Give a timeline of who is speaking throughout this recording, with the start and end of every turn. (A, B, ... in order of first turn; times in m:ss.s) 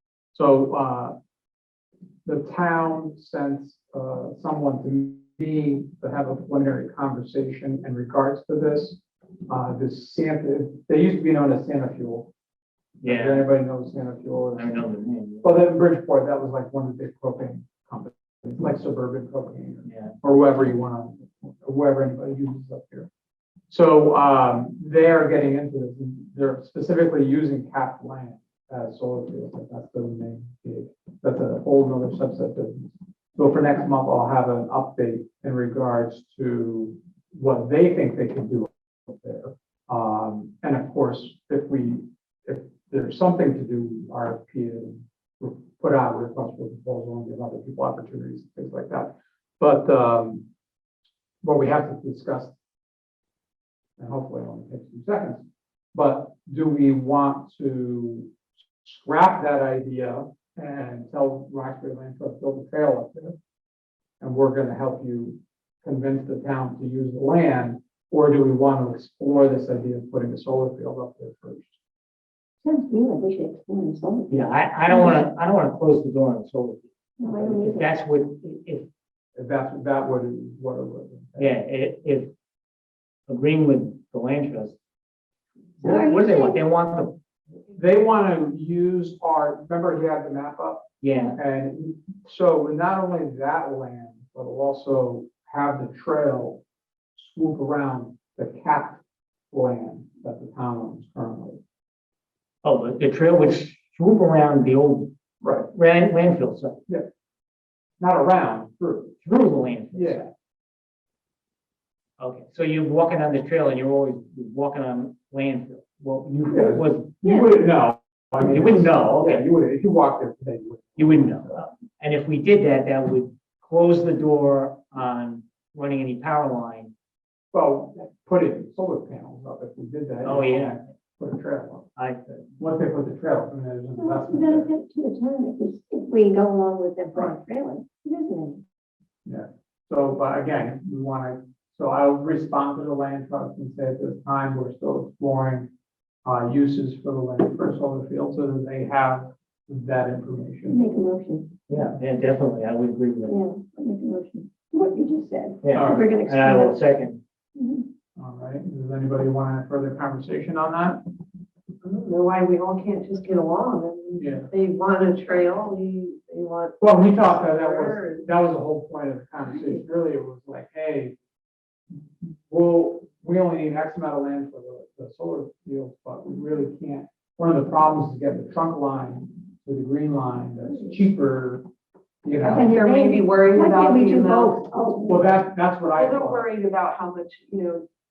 0:00.3-0:01.2 A
0:02.2-0:12.3 A
0:13.0-0:13.5 B
0:13.0-0:14.8 A
0:14.6-0:15.5 B
0:15.4-0:23.1 A
0:19.8-0:20.1 B
0:23.7-0:50.4 A
0:51.4-0:52.5 A
0:54.0-1:03.4 A
1:04.2-1:11.8 A
1:12.6-1:15.2 C
1:14.3-1:18.9 B
1:17.2-1:17.9 C
1:19.4-1:21.6 A
1:21.4-1:22.3 B
1:23.3-1:24.8 B
1:25.8-1:27.2 B
1:25.8-1:26.6 C
1:27.7-1:36.6 A
1:31.0-1:31.4 B
1:37.2-1:41.6 A
1:42.6-1:45.1 B
1:45.4-1:45.7 A
1:45.7-1:46.8 B
1:48.0-1:49.2 A
1:49.2-1:50.3 B
1:49.9-1:50.3 A
1:52.2-1:57.1 B
1:56.5-2:01.6 A
1:57.2-1:57.6 C
1:58.4-1:59.4 B
2:01.0-2:06.9 B
2:07.5-2:11.9 A
2:10.2-2:10.7 B
2:12.0-2:12.4 B
2:12.6-2:14.7 A
2:14.0-2:18.6 C
2:19.2-2:25.7 A
2:26.2-2:30.8 A
2:30.7-2:31.5 C
2:31.7-2:33.4 B
2:33.3-2:36.8 C
2:35.6-2:37.2 B
2:35.7-2:36.1 A
2:37.6-2:37.8 C
2:38.2-2:41.0 A
2:41.8-2:48.3 D
2:44.2-2:44.5 A
2:46.8-2:51.2 A
2:52.2-3:01.6 A
3:02.2-3:02.7 A
3:02.4-3:05.3 C
3:02.6-3:04.7 D
3:05.1-3:06.5 A
3:05.9-3:07.9 D